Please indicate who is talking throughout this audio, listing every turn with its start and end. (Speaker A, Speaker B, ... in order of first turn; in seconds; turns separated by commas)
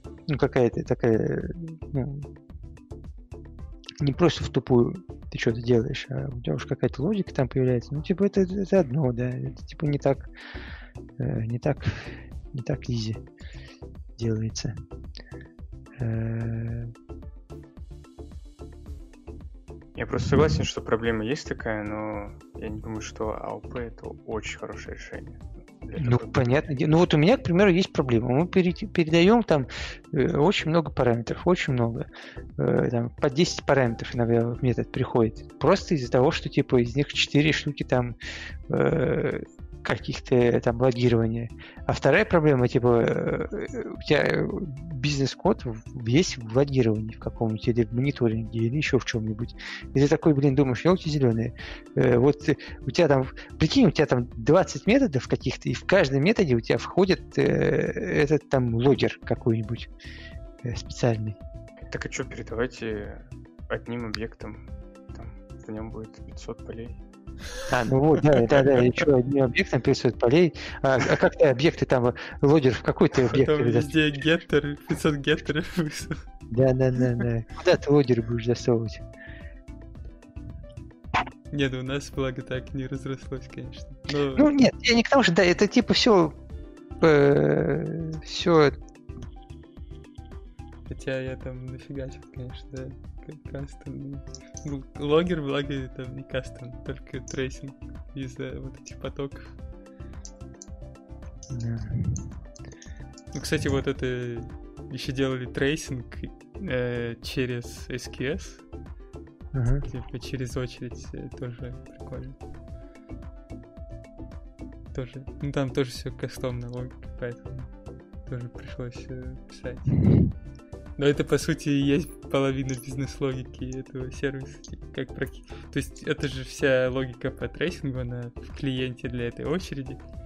Speaker A: 0.3-2.3, Speaker A: 4.0-10.3, Speaker A: 11.2-13.2, Speaker A: 14.2-14.8, Speaker A: 16.0-16.9, Speaker B: 19.9-26.7, Speaker A: 26.0-38.2, Speaker A: 38.7-59.9, Speaker A: 60.6-61.4, Speaker B: 61.9-67.0, Speaker A: 67.7-73.9, Speaker C: 73.3-76.2, Speaker A: 76.5-79.0, Speaker C: 81.5-84.5, Speaker A: 84.4-86.4, Speaker A: 87.0-88.8, Speaker C: 90.9-99.6, Speaker A: 101.5-102.4, Speaker C: 103.3-108.7, Speaker A: 109.5-109.9, Speaker C: 109.8-112.4, Speaker C: 114.9-117.7, Speaker C: 118.2-120.0, Speaker C: 121.0-130.0